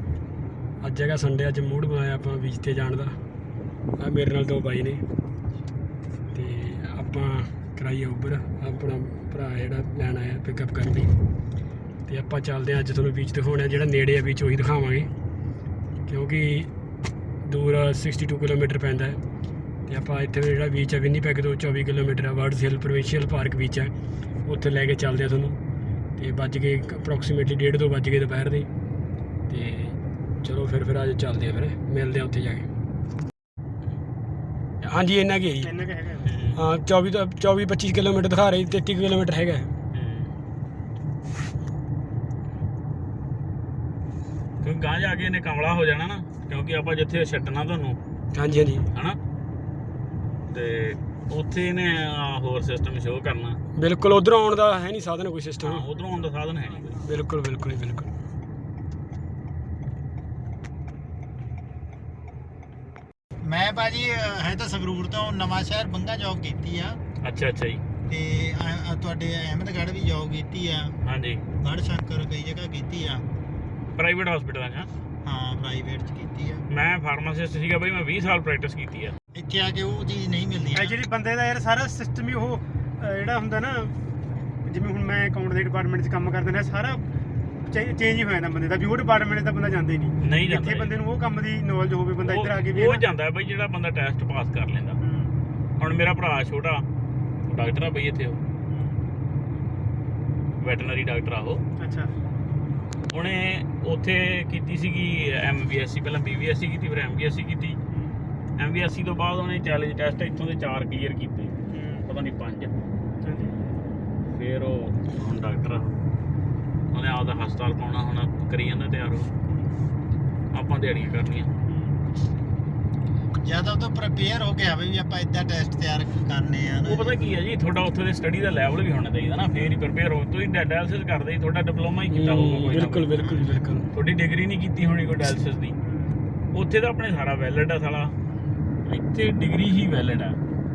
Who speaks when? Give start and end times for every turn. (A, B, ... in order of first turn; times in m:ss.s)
0:00.8-0:03.1 A
0:04.0-0:05.0 A
0:06.3-0:11.1 A
0:12.1-0:15.1 A
0:16.1-0:16.7 A
0:17.4-0:19.2 A
0:19.9-0:23.9 A
0:24.5-0:25.6 A
0:26.2-0:28.7 A
0:29.5-0:32.7 A
0:34.8-0:35.7 A
0:35.6-0:36.3 B
0:36.2-0:36.6 C
0:36.5-0:39.7 A
0:39.9-0:40.3 C
0:44.6-0:48.0 C
0:48.3-0:48.8 A
0:48.9-0:49.2 C
0:50.5-0:53.6 C
0:53.8-0:55.8 A
0:55.6-0:57.0 C
0:57.0-0:58.1 A
1:03.4-1:07.0 D
1:07.2-1:07.8 C
1:08.1-1:11.0 D
1:11.0-1:11.4 C
1:11.6-1:13.2 D
1:13.9-1:14.9 C
1:15.2-1:16.6 D
1:16.7-1:19.2 C
1:19.3-1:21.0 D
1:20.7-1:24.1 B
1:24.6-1:27.0 B
1:27.7-1:33.0 B
1:30.2-1:30.9 C
1:32.2-1:35.0 C
1:35.0-1:35.4 B
1:35.8-1:36.8 C
1:37.4-1:38.4 C
1:40.6-1:41.6 C
1:41.8-1:42.1 B
1:43.1-1:47.8 C
1:47.9-1:48.2 B
1:48.6-1:51.5 C
1:51.7-1:52.0 B
1:52.0-1:52.7 C
1:53.2-1:53.6 B
1:54.3-1:56.0 C
1:56.9-1:59.3 C
2:00.5-2:01.5 C
2:01.6-2:02.0 B
2:03.4-2:07.2 D
2:06.8-2:13.1 C
2:12.1-2:13.9 A
2:13.9-2:15.8 C
2:15.8-2:16.2 B
2:16.5-2:18.1 C
2:18.8-2:20.4 C